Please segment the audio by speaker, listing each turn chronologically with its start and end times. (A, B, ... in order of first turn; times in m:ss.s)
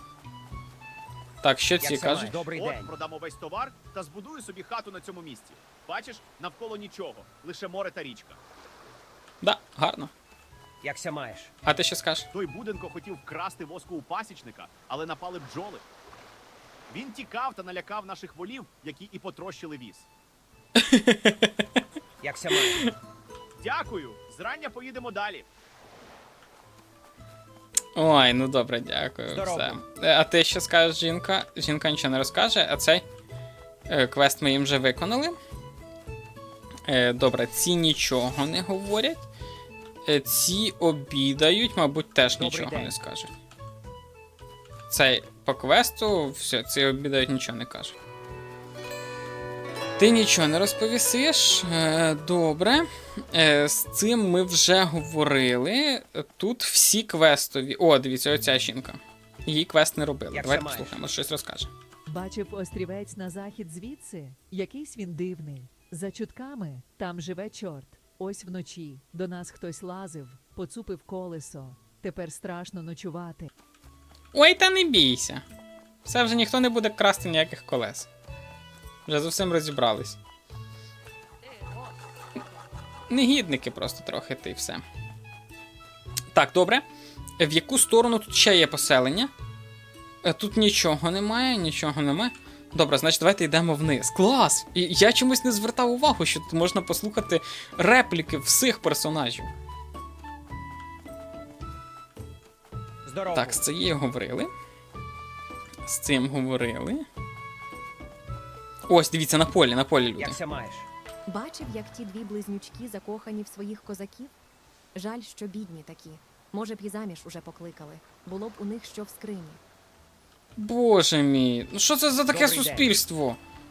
0:01.4-0:02.4 A
0:01.8-0:02.9 B
0:02.5-0:08.4 C
0:09.4-0:10.1 A
0:10.8-0:11.5 B
0:11.6-0:12.3 A
0:12.3-0:15.8 C
0:16.9-0:20.1 C
0:20.8-0:21.5 A
0:22.2-0:22.9 B
0:23.6-0:25.4 C
0:27.9-0:33.0 A
0:29.3-0:29.8 B
0:33.9-0:35.4 A
0:36.8-0:39.2 A
0:40.0-0:43.3 A
0:42.4-0:42.9 B
0:44.9-0:47.9 A
0:50.0-1:01.7 A
1:00.3-1:01.0 B
1:02.1-1:13.5 D
1:14.3-1:15.4 A
1:16.0-1:18.1 A
1:19.0-1:20.2 A
1:23.1-1:24.8 A
1:26.3-1:26.8 A
1:27.4-1:29.3 A
1:30.2-1:39.5 A
1:43.0-1:43.6 B
1:43.3-1:44.5 A
1:45.8-1:47.0 A
1:48.9-1:50.4 A
1:50.2-1:50.9 B
1:51.3-1:54.3 E
1:54.9-1:59.6 E
2:00.6-2:03.4 A
2:02.3-2:02.9 B